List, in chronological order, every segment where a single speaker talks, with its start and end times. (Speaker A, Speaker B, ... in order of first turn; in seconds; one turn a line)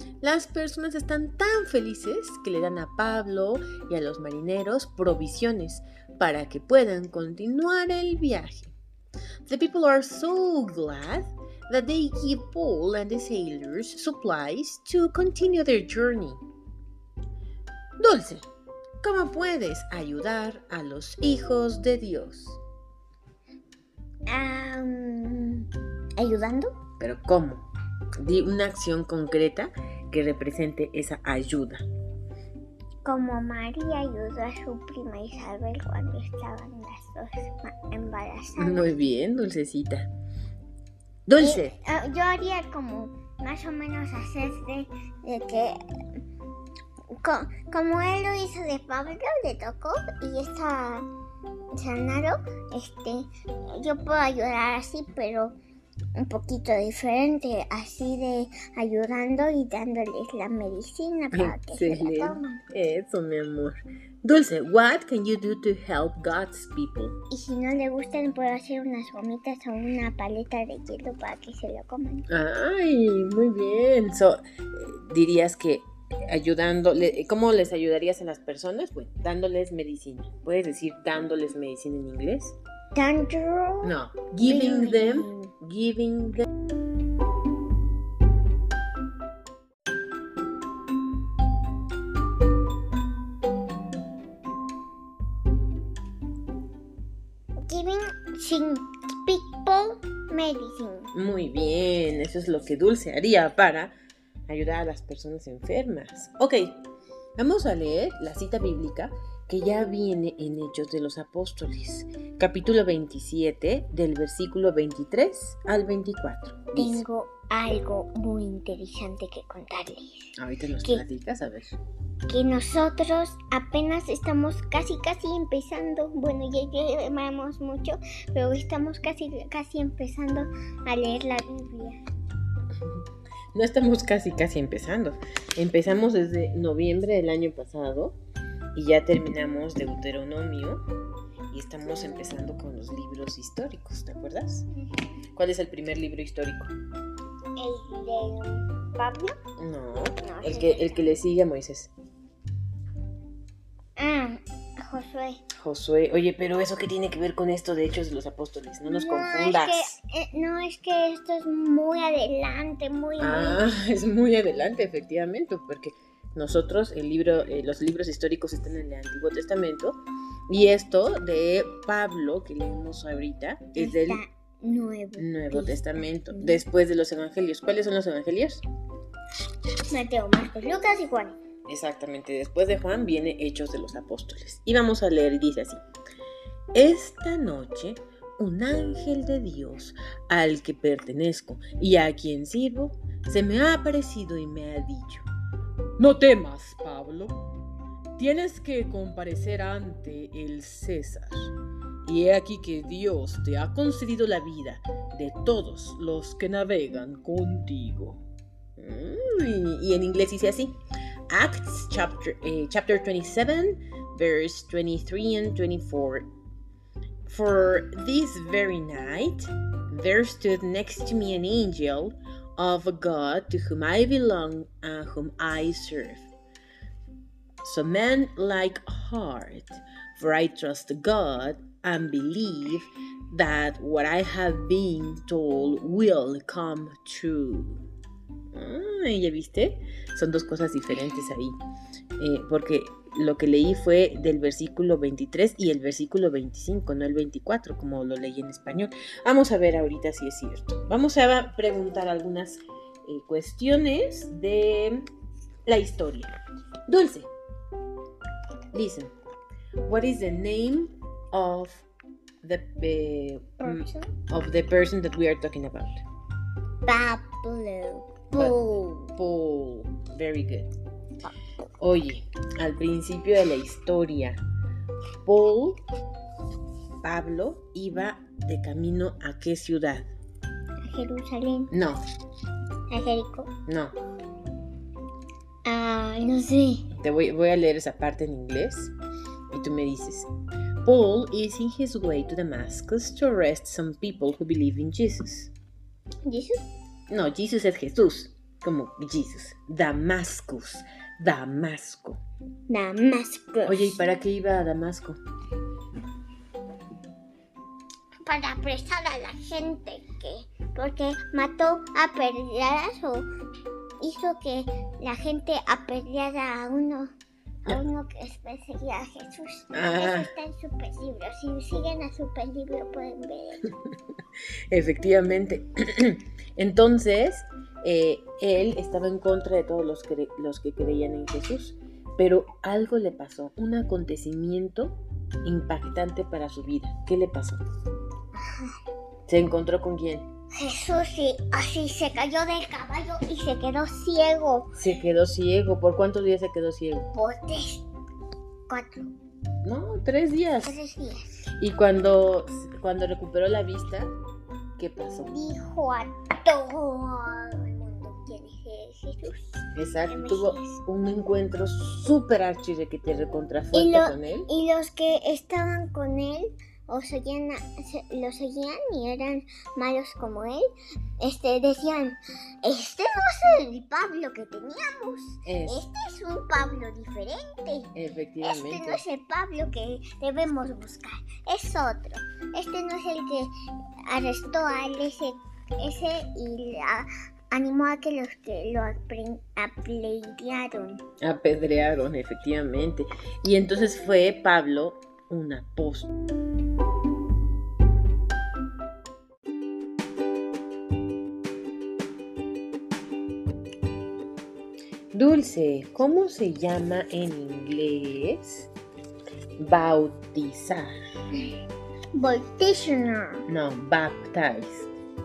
Speaker A: 0.2-8.8
Speaker A: 9.5-16.4
Speaker A: 18.0-18.4
Speaker A: 19.0-22.6
Speaker B: 24.3-26.8
Speaker A: 27.0-27.6
Speaker A: 28.2-31.8
Speaker B: 33.0-38.9
Speaker A: 38.6-40.1
Speaker A: 41.3-41.8
Speaker B: 41.4-46.2
Speaker B: 47.2-51.1
Speaker B: 51.8-55.6
Speaker B: 56.2-62.6
Speaker A: 61.3-67.2
Speaker B: 67.3-72.3
Speaker A: 72.3-82.6
Speaker B: 82.9-85.5
Speaker A: 83.8-86.5
Speaker B: 97.7-101.1
Speaker A: 101.1-104.0
Speaker A: 104.5-106.8
Speaker A: 107.4-117.0
Speaker B: 116.7-121.0
Speaker A: 120.4-121.8
Speaker B: 122.3-132.0
Speaker A: 133.5-138.2
Speaker A: 138.7-140.8
Speaker A: 141.5-144.7
Speaker A: 145.3-146.7
Speaker B: 147.6-149.4
Speaker A: 149.6-151.9
Speaker B: 150.2-151.1
Speaker B: 154.0-155.4
Speaker A: 155.6-159.9
Speaker B: 158.9-163.6
Speaker A: 163.2-170.0
Speaker A: 170.5-174.2
Speaker B: 173.8-176.6
Speaker A: 175.2-178.6
Speaker B: 179.9-181.4
Speaker A: 181.7-185.8
Speaker A: 186.7-195.3
Speaker A: 196.0-197.4
Speaker A: 198.2-201.5
Speaker A: 202.0-208.2
Speaker A: 208.8-210.8
Speaker A: 211.3-216.3
Speaker A: 217.3-226.3
Speaker A: 227.6-237.8
Speaker A: 238.5-241.6
Speaker A: 242.2-255.1
Speaker A: 255.7-256.3
Speaker A: 256.9-257.3
Speaker A: 258.7-259.1
Speaker A: 259.9-261.9
Speaker A: 262.4-266.0
Speaker B: 263.6-264.1
Speaker B: 266.9-269.1
Speaker A: 268.4-268.6
Speaker A: 269.1-270.7
Speaker A: 271.8-274.4
Speaker A: 275.2-275.8
Speaker A: 277.0-280.1
Speaker B: 280.8-281.7
Speaker A: 281.7-282.0
Speaker B: 282.9-283.5
Speaker A: 283.7-284.0
Speaker B: 285.6-286.9
Speaker A: 286.9-288.9
Speaker A: 289.5-290.3
Speaker A: 290.8-295.5
Speaker B: 296.2-296.6
Speaker A: 297.1-302.2
Speaker B: 302.7-303.9
Speaker A: 303.6-305.2
Speaker B: 308.2-313.3
Speaker B: 314.0-317.1
Speaker B: 317.6-323.7
Speaker A: 319.7-320.3
Speaker A: 324.7-337.6
Speaker B: 338.4-338.7
Speaker A: 339.3-340.3
Speaker B: 340.6-344.8
Speaker A: 344.8-347.1
Speaker B: 347.1-347.9
Speaker B: 348.7-349.1
Speaker A: 349.6-350.8
Speaker B: 350.6-351.4
Speaker A: 351.6-354.1
Speaker A: 354.8-355.3
Speaker B: 355.3-360.8
Speaker A: 359.8-364.5
Speaker B: 363.7-370.7
Speaker B: 371.2-383.5
Speaker A: 375.4-375.9
Speaker A: 377.9-379.0
Speaker B: 384.1-391.0
Speaker A: 391.2-396.1
Speaker A: 405.1-408.7
Speaker A: 409.6-410.9
Speaker B: 412.1-413.4
Speaker A: 413.5-414.9